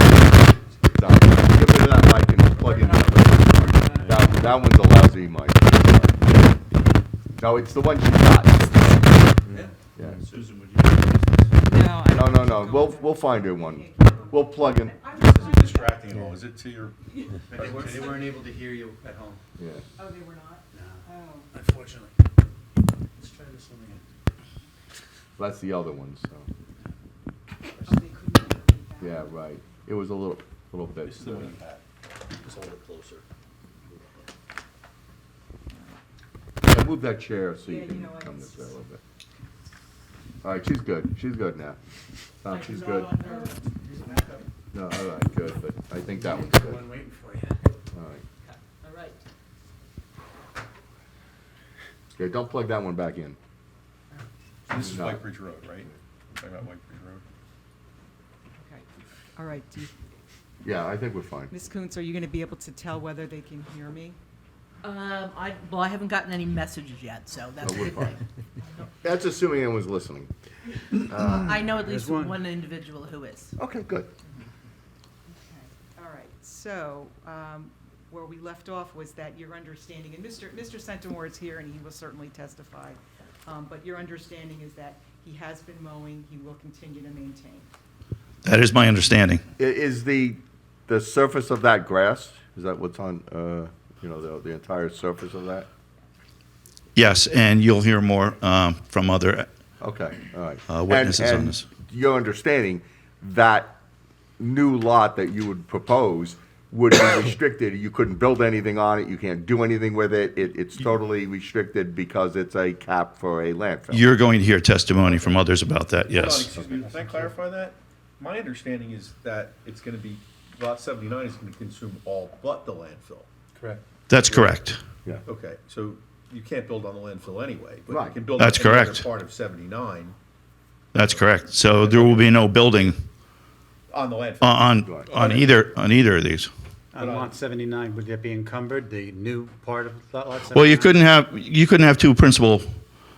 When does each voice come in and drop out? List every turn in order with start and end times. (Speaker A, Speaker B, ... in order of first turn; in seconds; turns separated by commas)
Speaker A: 0.9-6.3, Speaker B: 2.7-4.2, Speaker A: 7.4-9.2, Speaker A: 10.0-10.2, Speaker C: 10.4-10.9, Speaker D: 11.6-16.3, Speaker A: 12.1-15.0, Speaker E: 15.2-18.3, Speaker D: 17.1-18.0, Speaker B: 17.5-19.4, Speaker A: 19.6-19.9, Speaker D: 20.0-21.5, Speaker B: 20.7-21.0, Speaker B: 21.5-22.2, Speaker B: 23.2-24.0, Speaker A: 25.4-26.5, Speaker D: 27.8-29.4, Speaker A: 29.0-31.6, Speaker E: 31.0-33.2, Speaker A: 36.6-39.0, Speaker D: 37.6-38.8, Speaker A: 40.4-41.8, Speaker A: 42.4-43.2, Speaker B: 42.6-44.4, Speaker D: 43.2-43.6, Speaker A: 44.7-46.9, Speaker B: 46.1-47.7, Speaker A: 47.9-48.2, Speaker D: 48.4-49.2, Speaker A: 52.2-53.4, Speaker E: 54.7-57.2, Speaker A: 54.8-55.2, Speaker D: 58.6-59.9, Speaker A: 60.6-61.5, Speaker D: 61.5-64.2, Speaker F: 64.8-68.2, Speaker A: 67.6-68.2, Speaker A: 69.0-70.3, Speaker A: 71.0-71.7, Speaker F: 71.4-73.6, Speaker B: 71.7-72.4, Speaker A: 73.6-74.1, Speaker D: 75.3-87.7, Speaker C: 88.4-89.4, Speaker A: 89.6-95.7, Speaker C: 97.0-99.5, Speaker A: 99.8-103.8, Speaker C: 100.7-101.7, Speaker A: 104.4-114.1, Speaker C: 113.9-116.6, Speaker E: 115.0-115.4, Speaker E: 116.1-123.3, Speaker B: 116.8-117.3, Speaker B: 123.6-123.8, Speaker C: 124.1-124.8, Speaker E: 125.2-130.2, Speaker A: 127.9-128.2, Speaker C: 128.3-129.1, Speaker C: 130.9-133.0, Speaker E: 131.7-132.4, Speaker E: 133.9-135.6, Speaker C: 134.4-136.5, Speaker B: 136.9-141.0, Speaker E: 136.9-137.4, Speaker C: 140.5-142.7